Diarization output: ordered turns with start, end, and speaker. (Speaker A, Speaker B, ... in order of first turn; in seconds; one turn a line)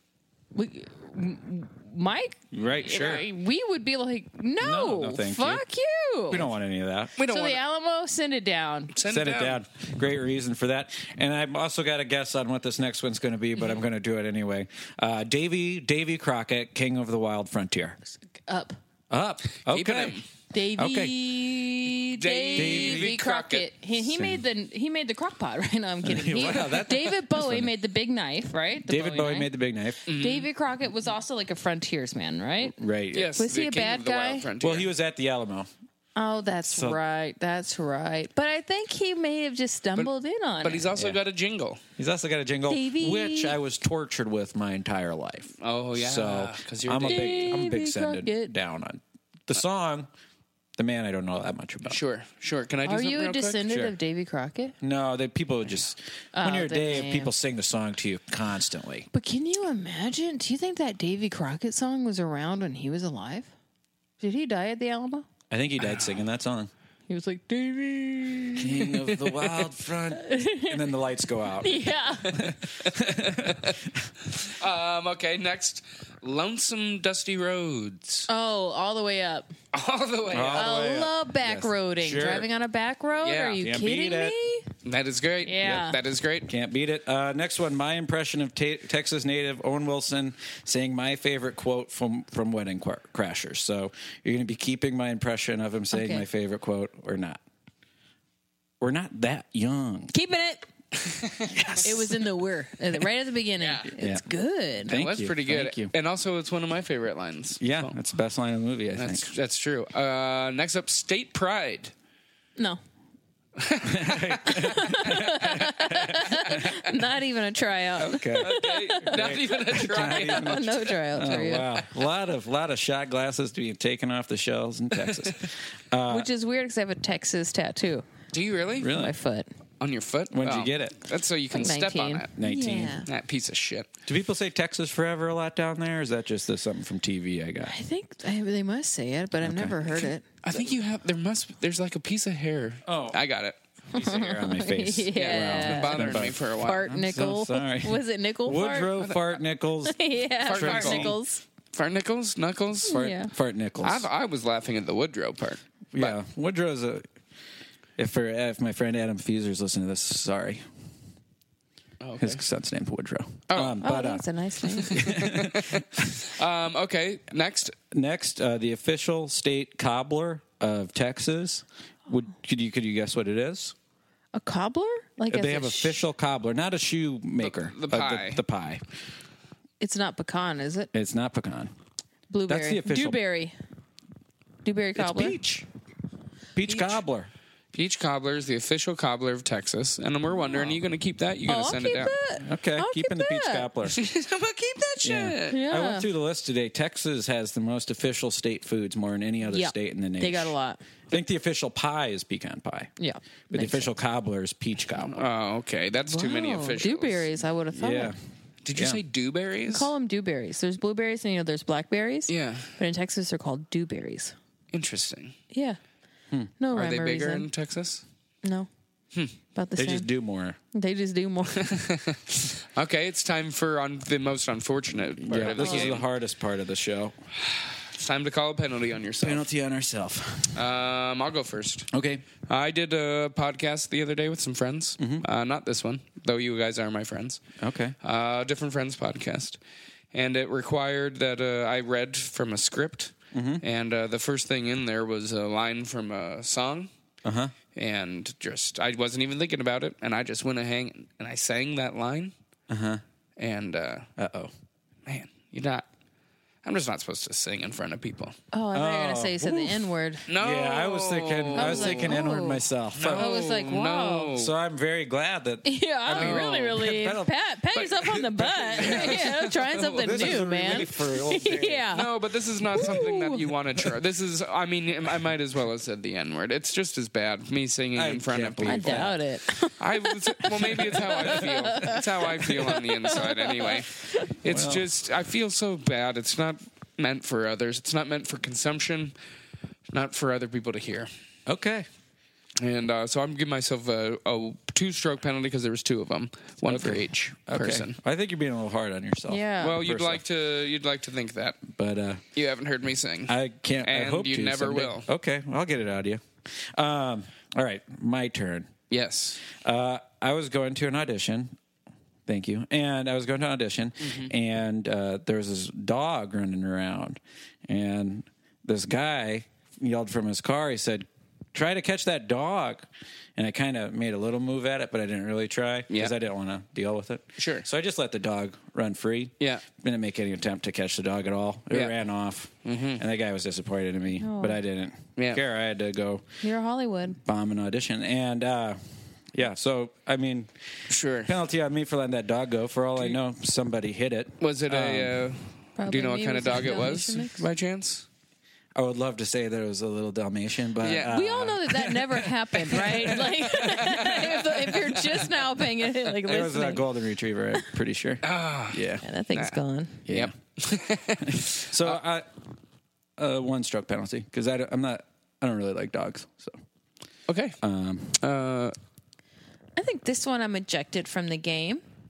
Speaker A: 0.5-6.5
Speaker B: 2.5-3.2
Speaker B: 4.6-5.6
Speaker B: 6.3-7.1
Speaker C: 7.2-7.6
Speaker A: 7.2-8.9
Speaker C: 8.9-9.6
Speaker B: 9.0-18.0
Speaker A: 18.5-18.8
Speaker B: 19.1-20.2
Speaker C: 19.7-20.2
Speaker A: 20.5-29.5
Speaker B: 20.8-21.2
Speaker C: 22.1-23.6
Speaker B: 22.6-23.1
Speaker B: 24.1-24.4
Speaker B: 26.0-27.7
Speaker B: 28.8-30.1
Speaker C: 30.1-30.5
Speaker A: 30.1-32.8
Speaker B: 32.7-33.4
Speaker C: 33.1-34.9
Speaker A: 33.4-34.5
Speaker B: 34.6-35.7
Speaker A: 36.1-40.9
Speaker B: 36.6-37.0
Speaker C: 40.6-41.8
Speaker B: 42.0-50.1
Speaker A: 42.7-43.6
Speaker C: 45.6-47.6
Speaker A: 47.1-48.5
Speaker B: 50.8-52.0
Speaker C: 51.9-53.6
Speaker A: 52.8-54.7
Speaker B: 53.7-53.9
Speaker B: 54.8-59.1
Speaker A: 56.3-57.3
Speaker A: 59.1-63.5
Speaker A: 64.2-65.3
Speaker B: 65.5-66.7
Speaker A: 67.1-68.9
Speaker B: 68.5-74.1
Speaker C: 69.1-69.4
Speaker A: 70.1-70.9
Speaker A: 71.6-72.5
Speaker C: 73.3-73.8
Speaker C: 74.3-78.3
Speaker A: 78.3-79.5
Speaker C: 79.7-80.8
Speaker B: 80.3-82.5
Speaker A: 80.5-84.7
Speaker C: 83.2-83.6
Speaker B: 83.6-84.3
Speaker C: 84.8-86.5
Speaker A: 85.4-86.0
Speaker B: 86.5-97.4
Speaker A: 95.9-96.2
Speaker B: 98.8-100.1
Speaker A: 100.1-100.7
Speaker C: 101.0-102.1
Speaker A: 101.8-105.0
Speaker B: 104.0-104.2
Speaker B: 104.8-105.9
Speaker C: 104.9-108.0
Speaker B: 107.6-109.3
Speaker C: 108.9-111.9
Speaker C: 113.6-114.7
Speaker B: 113.8-116.7
Speaker A: 114.4-121.7
Speaker C: 118.0-120.9
Speaker B: 118.0-126.3
Speaker A: 126.1-128.1
Speaker C: 128.3-128.9
Speaker B: 128.8-129.1
Speaker A: 128.9-129.5
Speaker C: 129.8-133.9
Speaker B: 130.3-131.0
Speaker A: 131.5-133.1
Speaker B: 132.4-133.0
Speaker B: 134.1-137.7
Speaker A: 137.6-140.4
Speaker B: 139.4-140.1
Speaker C: 140.4-143.6
Speaker B: 142.8-143.2
Speaker A: 143.9-149.0
Speaker B: 143.9-151.2
Speaker C: 145.1-146.9
Speaker C: 149.0-149.4
Speaker A: 149.8-151.4
Speaker C: 150.4-151.2
Speaker C: 151.7-153.0
Speaker B: 152.8-154.1
Speaker A: 152.9-153.3
Speaker C: 153.8-156.2
Speaker B: 155.9-157.0
Speaker B: 158.0-160.6
Speaker C: 162.0-162.4
Speaker B: 162.2-164.2
Speaker C: 163.5-163.8
Speaker A: 163.8-165.1
Speaker C: 164.8-167.8
Speaker B: 164.9-166.2
Speaker B: 167.9-173.7
Speaker A: 174.3-176.0
Speaker B: 175.3-178.8
Speaker C: 177.4-178.4
Speaker A: 179.8-180.9
Speaker B: 180.9-181.7
Speaker A: 182.3-183.5
Speaker B: 182.5-183.2
Speaker A: 184.6-185.4
Speaker B: 184.9-185.7
Speaker B: 186.5-187.3
Speaker C: 187.7-192.1
Speaker A: 191.5-193.7
Speaker B: 192.4-194.0
Speaker C: 193.9-195.6
Speaker B: 195.0-200.5
Speaker A: 195.5-196.1
Speaker A: 199.5-200.8
Speaker B: 201.1-202.9
Speaker A: 203.0-203.9
Speaker B: 203.5-205.3
Speaker C: 205.0-207.3
Speaker A: 206.1-208.1
Speaker B: 207.7-208.2
Speaker C: 208.6-209.9
Speaker B: 208.7-209.0
Speaker A: 209.7-214.3
Speaker C: 212.3-212.7
Speaker C: 214.7-215.3
Speaker A: 215.5-215.8
Speaker A: 216.6-217.5
Speaker C: 216.7-218.0
Speaker A: 219.5-220.1
Speaker B: 219.8-220.6
Speaker A: 220.7-221.8
Speaker C: 221.6-226.0
Speaker B: 225.2-227.2
Speaker A: 225.5-225.9
Speaker C: 227.4-229.4
Speaker B: 229.2-230.6
Speaker C: 230.5-231.9
Speaker B: 231.9-232.2
Speaker C: 232.4-237.4
Speaker B: 235.0-235.2
Speaker B: 237.6-237.9
Speaker C: 238.0-239.6
Speaker C: 240.1-246.9
Speaker B: 243.3-243.6
Speaker B: 247.2-247.5
Speaker C: 247.7-252.3
Speaker B: 252.7-253.0
Speaker C: 253.4-254.1
Speaker B: 254.2-254.5
Speaker C: 255.1-255.8
Speaker C: 256.6-258.4
Speaker A: 258.5-260.3
Speaker B: 258.7-263.3
Speaker C: 260.3-262.2
Speaker A: 261.5-264.3
Speaker C: 262.9-264.5
Speaker B: 264.3-269.4
Speaker A: 265.6-272.1
Speaker C: 266.1-266.9
Speaker C: 268.8-270.9
Speaker B: 270.0-271.9
Speaker C: 271.9-279.1
Speaker A: 272.7-273.5
Speaker B: 277.9-279.2
Speaker A: 278.7-284.3
Speaker C: 279.8-289.1
Speaker B: 280.6-281.9
Speaker B: 284.4-284.9
Speaker C: 289.9-291.1
Speaker B: 291.4-291.9
Speaker C: 292.6-298.0
Speaker B: 296.6-300.2
Speaker A: 299.3-299.8
Speaker C: 299.6-301.6
Speaker B: 301.7-302.2
Speaker C: 302.3-305.1
Speaker B: 303.3-308.7
Speaker C: 308.9-309.4
Speaker B: 309.5-311.5
Speaker B: 312.3-336.2
Speaker C: 314.0-314.3
Speaker C: 327.4-327.6
Speaker C: 329.4-329.6
Speaker C: 332.6-333.0
Speaker A: 334.2-334.6
Speaker C: 335.1-335.4
Speaker A: 336.4-337.2
Speaker B: 337.2-338.8
Speaker B: 339.3-340.5
Speaker C: 340.9-341.3
Speaker B: 341.2-345.2
Speaker C: 344.4-348.0
Speaker A: 345.8-347.4
Speaker B: 348.7-353.9
Speaker C: 350.8-351.1
Speaker A: 351.0-356.9
Speaker C: 353.6-354.3
Speaker B: 356.2-359.0
Speaker C: 358.2-359.5
Speaker A: 359.0-360.0
Speaker B: 360.1-360.3
Speaker C: 360.1-362.0
Speaker B: 361.2-362.3
Speaker B: 363.2-366.6
Speaker C: 367.3-367.6
Speaker B: 367.6-368.2
Speaker C: 368.2-368.7
Speaker A: 369.8-371.8